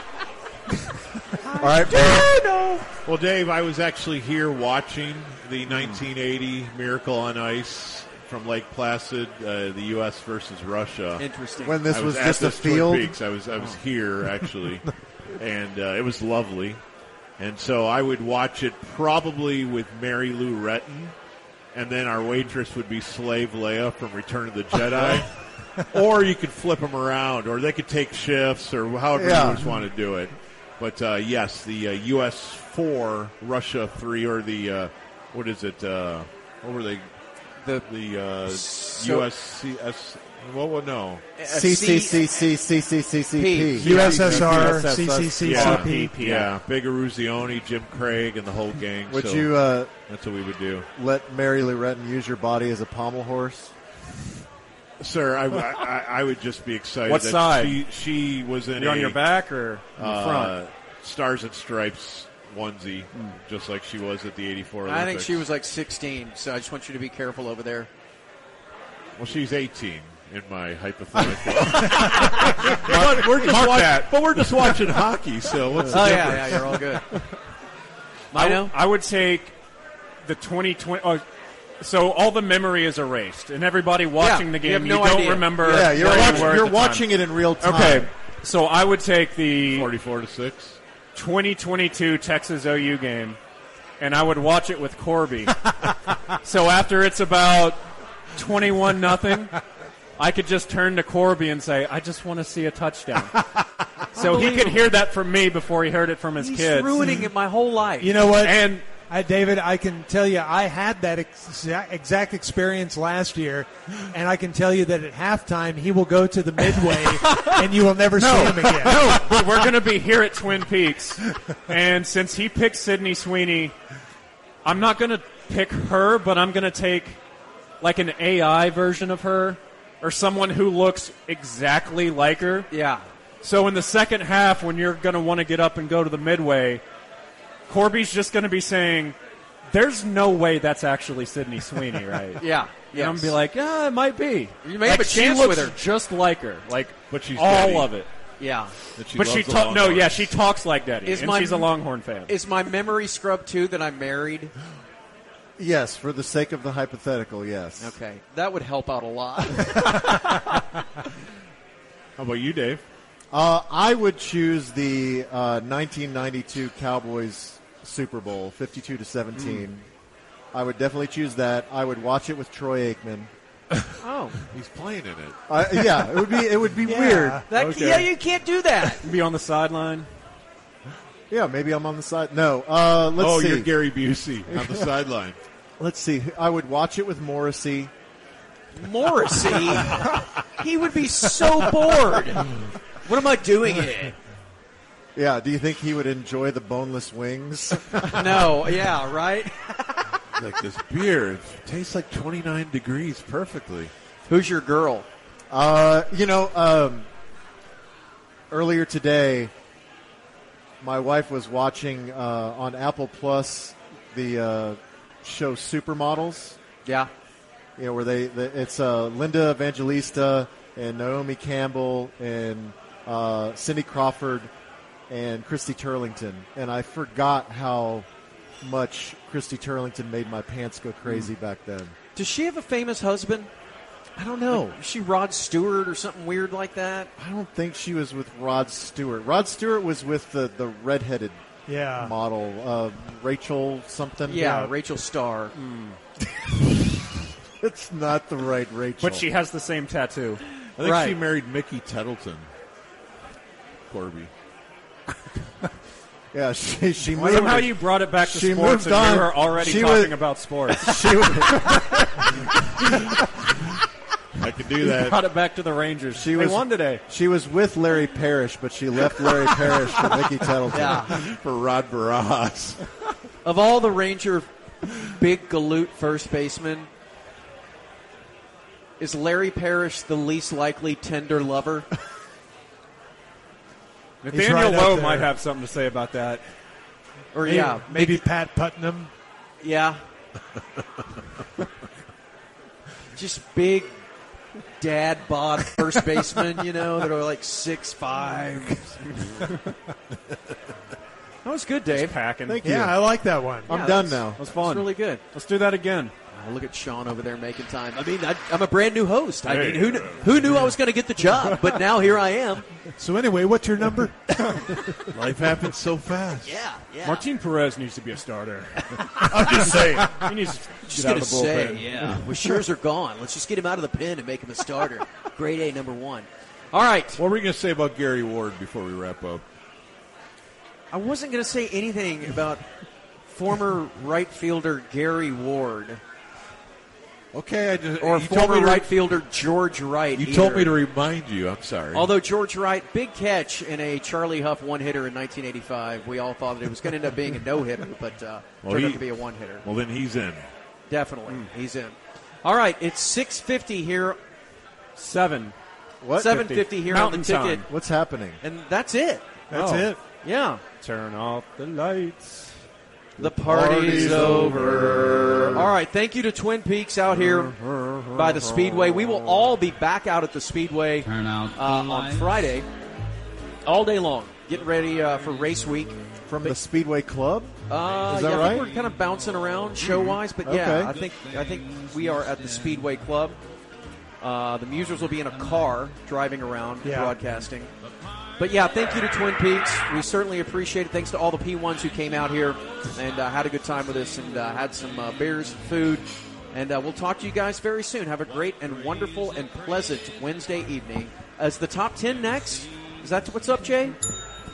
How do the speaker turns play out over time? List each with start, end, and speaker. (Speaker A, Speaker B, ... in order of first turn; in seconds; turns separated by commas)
Speaker A: 1.4-2.9, Speaker B: 1.6-2.3, Speaker C: 3.0-11.2, Speaker A: 11.2-11.9, Speaker B: 11.6-13.2, Speaker C: 11.9-16.8, Speaker C: 17.4-21.1, Speaker C: 21.7-37.0, Speaker B: 29.1-29.7, Speaker C: 37.9-41.2, Speaker A: 38.5-39.3, Speaker A: 41.4-42.5, Speaker B: 41.5-44.1, Speaker A: 43.4-44.7, Speaker D: 43.8-46.5, Speaker E: 43.8-45.9, Speaker C: 45.4-49.5, Speaker B: 49.1-49.9, Speaker C: 50.1-50.9, Speaker B: 51.0-53.7, Speaker C: 55.0-59.2, Speaker D: 57.0-57.8, Speaker D: 58.8-60.5, Speaker C: 60.0-65.4, Speaker A: 64.8-67.9, Speaker C: 69.2-76.7, Speaker D: 72.0-74.1, Speaker A: 75.9-77.0, Speaker A: 78.3-78.7, Speaker D: 78.3-79.5, Speaker D: 80.2-81.2, Speaker D: 81.8-87.1, Speaker A: 84.2-86.6, Speaker B: 85.6-88.1, Speaker D: 87.6-89.9, Speaker C: 89.6-90.8, Speaker D: 91.1-93.4, Speaker D: 94.0-95.7, Speaker D: 96.3-97.8, Speaker D: 98.3-99.6, Speaker D: 100.2-103.4, Speaker A: 104.1-104.8, Speaker D: 104.1-107.2, Speaker A: 106.4-108.2, Speaker E: 108.0-119.0, Speaker D: 108.4-108.8, Speaker D: 116.8-123.7, Speaker D: 124.6-127.2, Speaker D: 127.8-132.7, Speaker A: 132.7-133.0, Speaker D: 133.4-136.8, Speaker D: 137.7-139.2, Speaker D: 139.7-148.1, Speaker A: 142.4-143.3, Speaker A: 144.6-145.8, Speaker C: 147.1-147.9, Speaker A: 148.4-148.7, Speaker C: 148.9-150.3, Speaker D: 149.1-152.3, Speaker A: 151.0-151.7, Speaker A: 152.2-154.5, Speaker B: 155.6-157.9, Speaker A: 157.8-160.4, Speaker C: 162.2-162.8, Speaker B: 163.3-169.8, Speaker B: 170.5-173.3, Speaker A: 174.0-174.4, Speaker C: 174.5-175.4, Speaker B: 175.5-177.5, Speaker E: 176.8-177.4, Speaker A: 177.5-179.0, Speaker D: 179.0-180.1, Speaker B: 181.3-183.7, Speaker C: 183.2-185.4, Speaker B: 184.5-184.9, Speaker B: 185.8-187.9, Speaker A: 188.8-194.1, Speaker B: 195.2-198.6, Speaker A: 198.0-200.0, Speaker C: 200.3-203.9, Speaker A: 204.3-205.1, Speaker B: 205.5-207.1, Speaker B: 208.5-209.5, Speaker B: 210.8-216.6, Speaker A: 216.8-217.1, Speaker B: 217.8-224.5, Speaker B: 225.1-228.1, Speaker B: 228.6-231.9, Speaker A: 232.1-233.5, Speaker B: 234.2-234.8, Speaker A: 234.5-237.1, Speaker B: 237.2-241.4, Speaker E: 241.7-242.1, Speaker B: 241.9-244.5, Speaker A: 244.2-245.5, Speaker E: 244.4-244.7, Speaker D: 245.5-246.0, Speaker B: 247.6-249.3, Speaker D: 249.0-250.4, Speaker C: 250.8-252.5, Speaker A: 250.8-251.2, Speaker C: 253.9-254.3, Speaker B: 256.3-262.0, Speaker D: 257.1-262.0, Speaker C: 264.4-265.2, Speaker D: 264.8-267.0, Speaker B: 266.1-271.1, Speaker A: 270.7-271.2, Speaker C: 271.1-272.8, Speaker A: 273.4-276.9, Speaker A: 279.0-281.9, Speaker D: 284.2-286.4, Speaker E: 284.3-285.3, Speaker A: 287.3-288.2, Speaker E: 287.4-289.1, Speaker A: 289.6-290.0, Speaker A: 293.1-293.9, Speaker A: 294.8-299.0, Speaker A: 301.4-302.1, Speaker D: 301.9-302.6, Speaker B: 302.5-303.0, Speaker E: 302.6-303.7, Speaker B: 303.7-304.4, Speaker A: 303.7-305.2, Speaker D: 304.4-306.1, Speaker A: 306.3-312.7, Speaker C: 309.4-310.2, Speaker E: 313.0-314.9, Speaker C: 315.0-316.6, Speaker A: 316.4-317.2, Speaker D: 317.0-322.2, Speaker C: 319.2-320.2, Speaker A: 320.9-327.2, Speaker C: 327.2-329.4, Speaker A: 330.9-332.6, Speaker A: 333.3-336.0, Speaker C: 337.3-338.9, Speaker A: 338.0-340.7, Speaker C: 340.1-342.1, Speaker A: 341.9-349.6, Speaker C: 348.6-349.1, Speaker C: 349.6-350.5, Speaker A: 350.9-354.2, Speaker D: 354.9-355.5, Speaker B: 356.0-356.4, Speaker A: 356.2-357.6, Speaker D: 356.2-357.6, Speaker B: 357.6-358.4, Speaker A: 358.4-359.2, Speaker D: 359.5-359.9, Speaker E: 359.5-360.0, Speaker A: 360.2-360.6, Speaker D: 360.8-362.5, Speaker B: 363.2-365.6, Speaker A: 363.2-365.0, Speaker A: 365.5-367.5, Speaker A: 368.1-372.7, Speaker A: 373.6-376.6, Speaker B: 376.3-377.5, Speaker A: 377.7-383.4, Speaker B: 378.1-378.6, Speaker B: 379.9-380.9, Speaker A: 384.2-387.7, Speaker E: 386.8-387.1, Speaker A: 388.4-404.0